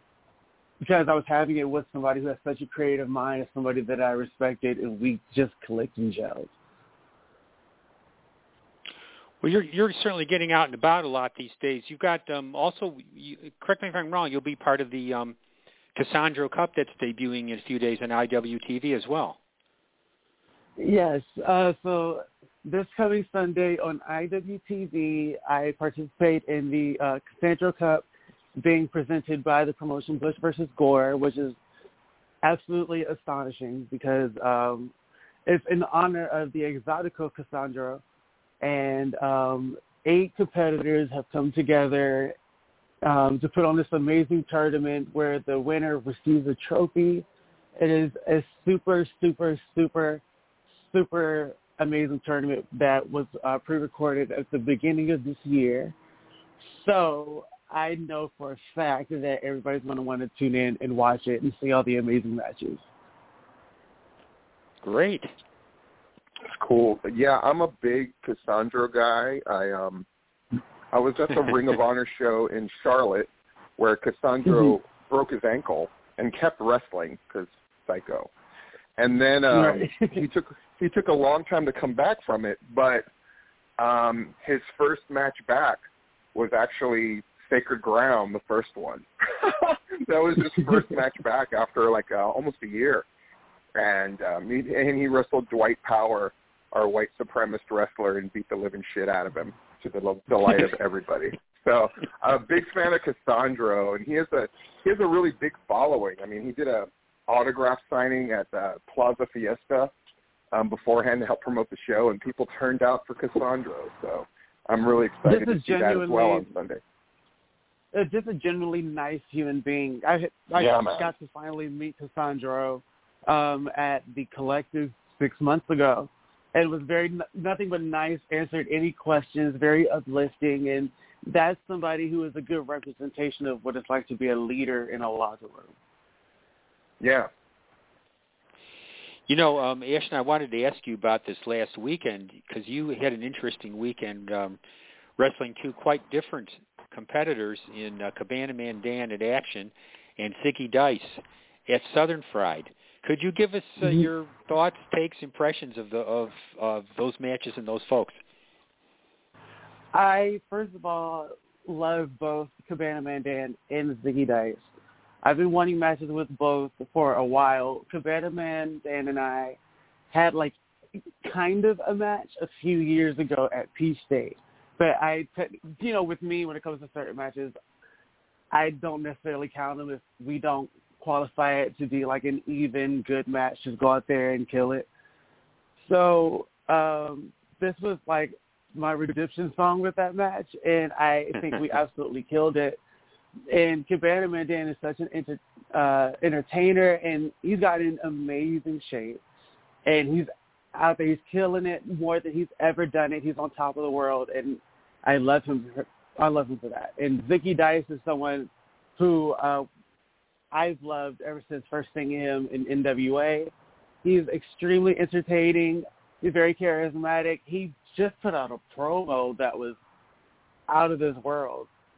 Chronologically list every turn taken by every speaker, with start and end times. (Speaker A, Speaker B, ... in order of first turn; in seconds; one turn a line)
Speaker A: 0.8-6.5
Speaker B: 9.4-15.4
Speaker B: 15.9-19.4
Speaker A: 20.8-28.0
Speaker A: 28.6-31.6
Speaker A: 32.4-34.9
Speaker A: 35.5-38.0
Speaker A: 38.6-42.4
Speaker A: 43.0-47.2
Speaker A: 47.8-50.2
Speaker A: 50.9-55.9
Speaker A: 56.6-62.8
Speaker B: 64.8-65.3
Speaker C: 66.4-70.1
Speaker C: 70.9-78.3
Speaker A: 74.5-74.8
Speaker C: 79.0-83.1
Speaker A: 79.5-80.2
Speaker C: 83.8-85.8
Speaker C: 86.3-93.1
Speaker C: 93.8-109.9
Speaker C: 110.5-116.8
Speaker A: 115.2-116.5
Speaker A: 117.9-135.7
Speaker C: 120.5-121.1
Speaker C: 137.0-137.3
Speaker B: 139.3-144.6
Speaker B: 145.2-158.2
Speaker A: 159.9-164.6
Speaker A: 165.2-169.6
Speaker A: 170.1-170.6
Speaker A: 171.2-177.6
Speaker A: 178.5-184.9
Speaker A: 185.8-192.8
Speaker A: 193.5-199.2
Speaker A: 199.9-209.7
Speaker A: 210.5-213.5
Speaker A: 214.0-219.8
Speaker A: 220.7-221.7